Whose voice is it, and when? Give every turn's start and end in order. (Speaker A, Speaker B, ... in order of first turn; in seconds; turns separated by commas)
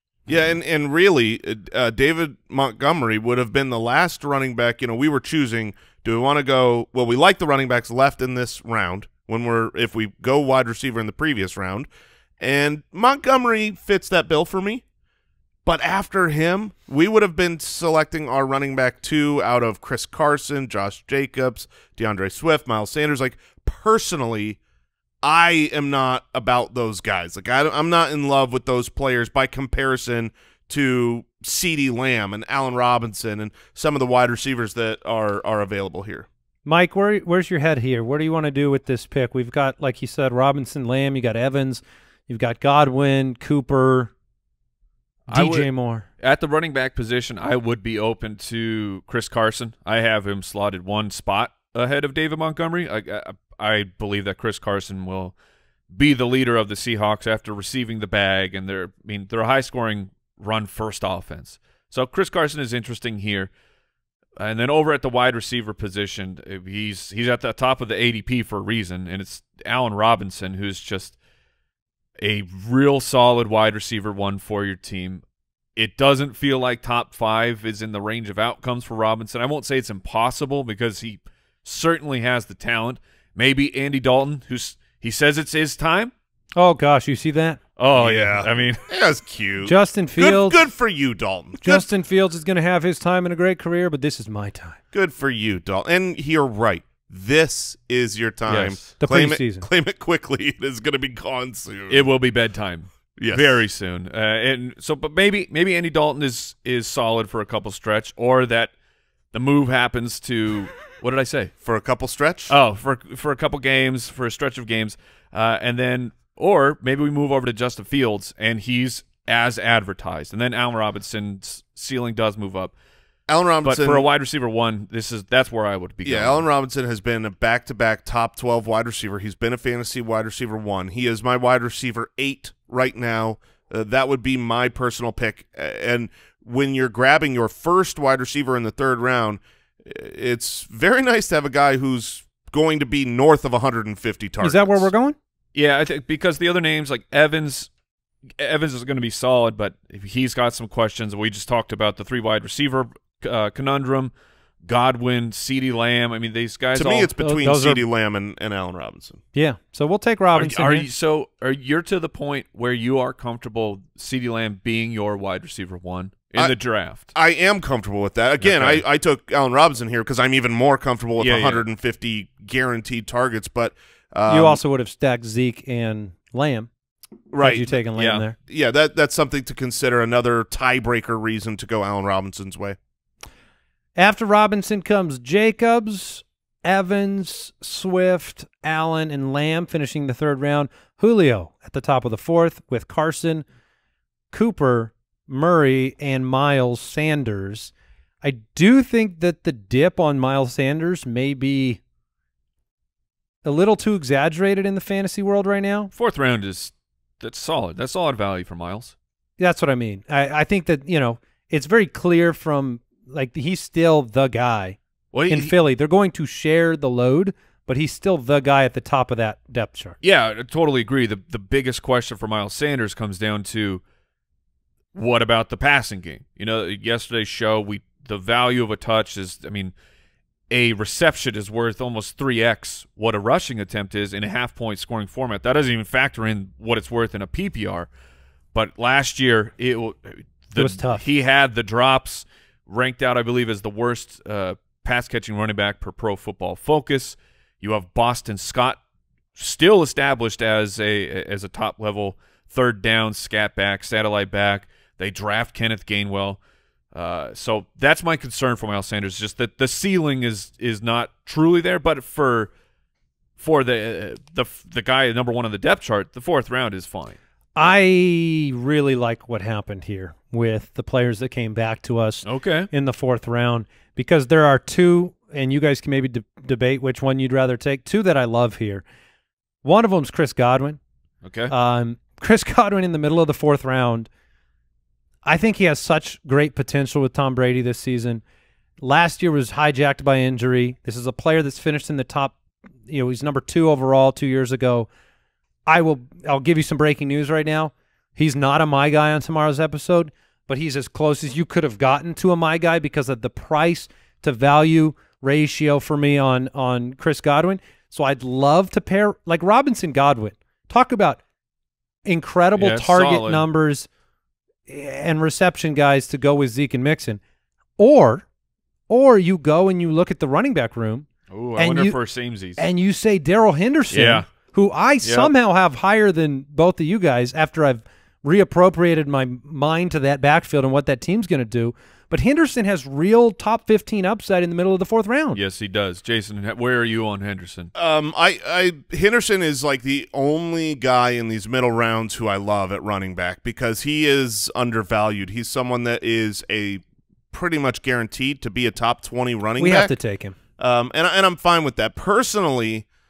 Speaker A: 0.3-11.9, Speaker A: 12.4-14.8, Speaker A: 15.7-24.6, Speaker A: 25.2-36.3, Speaker B: 36.6-44.1, Speaker C: 45.3-55.3, Speaker B: 45.3-46.1, Speaker C: 55.9-63.5, Speaker C: 64.4-71.2, Speaker C: 72.2-75.2, Speaker C: 75.8-86.1, Speaker B: 86.6-87.6, Speaker C: 87.8-88.8, Speaker A: 88.0-91.9, Speaker B: 89.6-90.6, Speaker B: 91.6-94.8, Speaker A: 94.9-102.0, Speaker C: 98.5-98.9, Speaker B: 99.0-99.7, Speaker C: 101.9-108.7, Speaker A: 103.2-103.6, Speaker C: 109.3-111.5, Speaker A: 111.6-112.5, Speaker C: 112.5-122.7, Speaker A: 123.3-124.1, Speaker C: 123.7-126.5, Speaker A: 126.0-144.9, Speaker B: 144.4-145.2, Speaker C: 145.6-147.7, Speaker C: 148.4-154.1, Speaker C: 154.7-157.1, Speaker A: 156.7-159.2, Speaker B: 157.2-157.8, Speaker B: 159.3-160.9, Speaker C: 160.4-167.1, Speaker A: 167.1-174.6, Speaker C: 168.4-168.8, Speaker C: 171.2-171.6, Speaker B: 174.3-176.7, Speaker A: 177.3-177.7, Speaker B: 177.4-178.4, Speaker C: 178.0-178.2, Speaker A: 178.5-182.8, Speaker B: 184.0-193.4, Speaker B: 194.3-197.7, Speaker B: 198.2-201.8, Speaker B: 203.4-205.9, Speaker C: 205.9-208.9, Speaker B: 209.4-214.8, Speaker C: 215.1-215.5, Speaker B: 215.3-220.0, Speaker C: 220.0-223.8, Speaker C: 224.9-229.7, Speaker C: 230.5-237.9, Speaker C: 238.5-248.8, Speaker B: 240.6-241.0, Speaker C: 249.4-256.4, Speaker C: 256.9-262.5, Speaker C: 263.4-267.2, Speaker B: 267.6-278.8, Speaker C: 272.2-272.7, Speaker B: 279.6-280.8, Speaker C: 281.2-281.5, Speaker B: 281.5-284.1, Speaker B: 285.2-288.2, Speaker B: 288.8-294.9, Speaker B: 295.7-311.2, Speaker B: 312.1-313.9, Speaker C: 312.6-313.4, Speaker B: 314.7-317.2, Speaker B: 317.8-318.3, Speaker B: 318.9-322.0, Speaker C: 321.3-322.6, Speaker B: 322.6-335.4, Speaker C: 323.9-324.3, Speaker C: 325.0-325.3, Speaker C: 335.3-337.7, Speaker A: 337.8-349.9, Speaker B: 349.6-350.4, Speaker A: 350.6-352.9